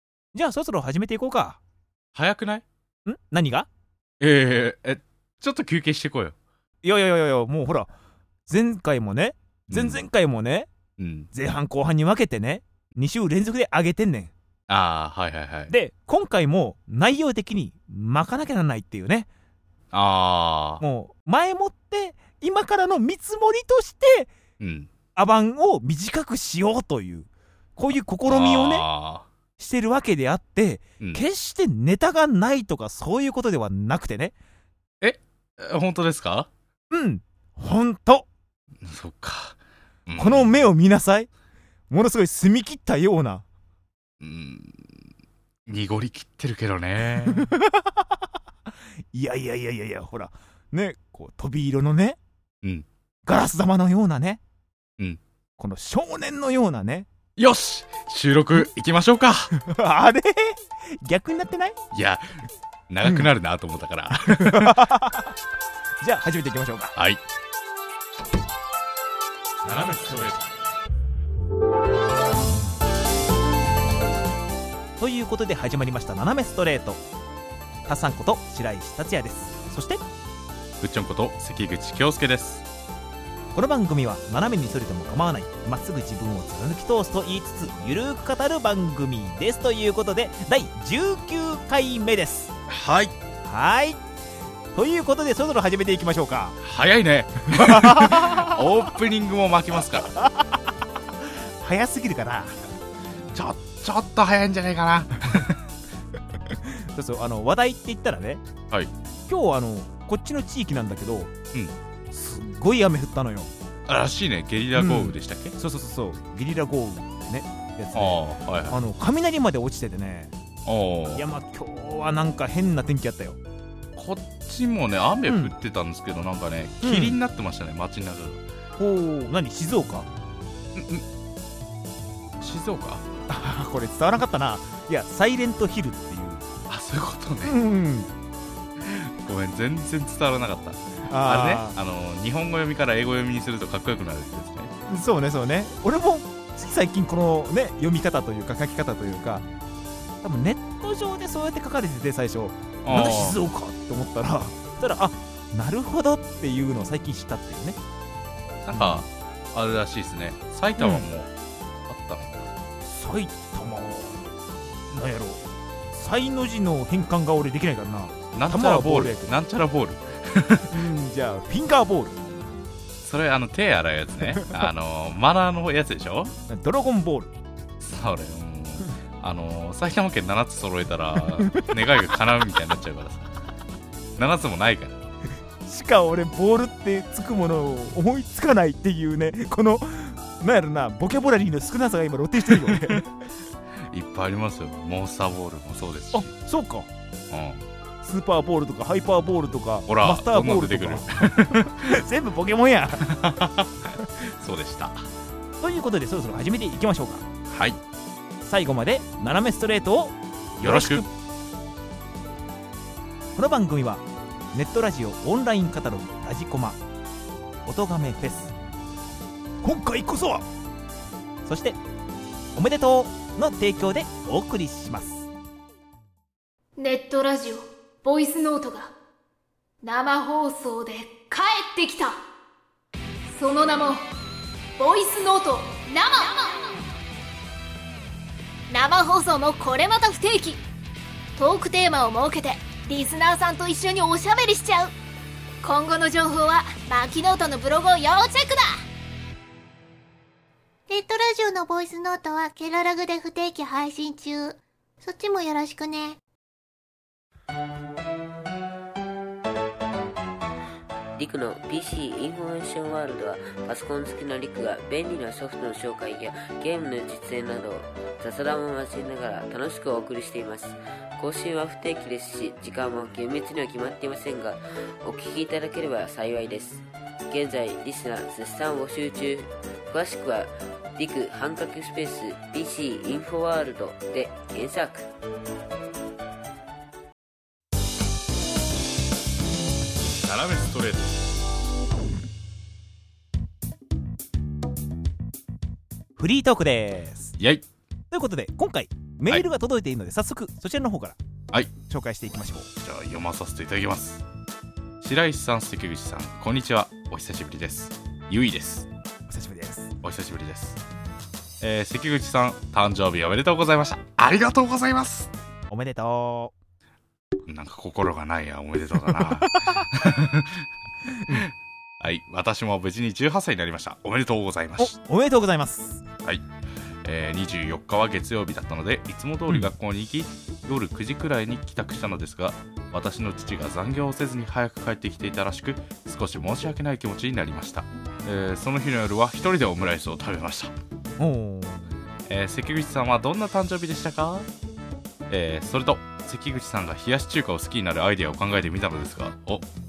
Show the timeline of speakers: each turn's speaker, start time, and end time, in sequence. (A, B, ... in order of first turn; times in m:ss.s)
0:00.3-0:01.6 A
0:02.1-0:02.6 B
0:03.0-0:03.7 A
0:04.2-0:06.4 B
0:06.8-0:07.9 A
0:08.5-0:10.7 A
0:09.7-0:10.0 B
0:11.0-0:11.3 B
0:11.3-0:14.3 A
0:14.7-0:15.7 B
0:15.7-0:19.3 A
0:19.9-0:20.8 B
0:20.8-0:24.3 A
0:24.6-0:24.9 B
0:25.1-0:28.8 A
0:28.2-0:29.3 B
0:29.6-0:34.3 A
0:35.0-0:36.5 B
0:36.9-0:38.3 A
0:38.8-0:40.6 B
0:40.2-0:41.3 A
0:41.9-0:43.4 A
0:44.2-0:45.0 B
0:45.6-0:47.5 B
0:47.2-0:48.0 A
0:49.1-0:52.2 A
0:52.6-0:52.9 B
0:53.2-0:54.4 A
0:55.6-0:57.1 A
0:57.4-0:59.5 B
0:59.6-1:01.8 A
1:01.9-1:02.2 B
1:02.9-1:04.9 B
1:04.3-1:05.3 A
1:06.0-1:07.0 A
1:07.0-1:07.2 B
1:09.6-1:10.3 A
1:09.7-1:10.4 B
1:15.0-1:17.0 A
1:17.8-1:20.0 A
1:20.8-1:22.6 B
1:23.5-1:32.5 A
1:32.7-1:33.1 B
1:33.4-1:34.0 A
1:34.7-1:36.6 A
1:36.6-1:40.1 B
1:37.5-1:38.6 A
1:40.1-1:40.6 A
1:41.6-1:42.5 A
1:43.3-1:45.6 B
1:46.6-1:48.4 A
1:49.3-1:51.3 A
1:52.1-1:53.5 A
1:53.9-1:55.5 B
1:54.7-2:00.3 A
1:57.9-1:58.8 B
2:00.6-2:01.2 B
2:01.1-2:03.4 A
2:04.0-2:08.4 B
2:05.2-2:05.5 A
2:06.8-2:07.2 A
2:08.8-2:10.1 A
2:10.7-2:11.0 B
2:12.4-2:13.0 B
2:13.3-2:16.4 A
2:16.7-2:17.6 B
2:17.4-2:18.1 A
2:18.8-2:24.7 B
2:21.1-2:21.8 A
2:24.9-2:29.4 A
2:30.2-2:37.8 A
2:32.8-2:33.4 B
2:38.6-2:41.3 B
2:38.7-2:39.1 A
2:40.8-2:41.0 A
2:41.8-2:42.5 B
2:42.8-2:44.2 A
2:44.9-2:49.3 A
2:48.3-2:50.8 B
2:50.7-2:52.2 A
2:53.0-2:56.3 B
2:56.5-2:57.3 A
2:57.8-3:03.3 B
3:01.2-3:01.7 A
3:04.2-3:05.0 B
3:05.6-3:13.1 A
3:12.4-3:13.0 B
3:13.9-3:16.3 B
3:16.1-3:16.9 A
3:17.3-3:17.6 B
3:18.0-3:23.2 A
3:19.9-3:21.9 B
3:23.0-3:25.1 B
3:25.6-3:27.3 A
3:27.5-3:27.8 B
3:28.4-3:31.1 A
3:30.6-3:31.1 B
3:33.4-3:36.8 A
3:37.6-3:38.5 A
3:39.6-3:40.4 A
3:41.4-3:41.8 A
3:42.5-3:45.3 A
3:46.8-3:48.9 C
3:49.8-3:52.1 C
3:53.3-3:54.0 C
3:54.8-3:56.8 C
3:58.7-4:00.6 C
4:01.4-4:04.9 C
4:05.6-4:08.8 C
4:10.9-4:16.2 D
4:21.2-4:45.1 E
4:50.0-4:51.2 B
4:56.2-4:57.4 A
4:57.4-4:57.6 B
4:58.1-5:01.2 A
5:01.8-5:02.7 A
5:02.8-5:04.2 B
5:05.0-5:08.9 B
5:09.3-5:09.9 A
5:10.0-5:10.8 B
5:11.6-5:15.3 B
5:15.7-5:16.5 A
5:17.5-5:20.7 B
5:19.1-5:19.8 A
5:21.2-5:21.5 A
5:21.3-5:25.0 B
5:24.8-5:26.0 A
5:27.0-5:40.7 B
5:41.2-5:41.9 A
5:42.3-5:44.5 B
5:45.3-5:49.7 B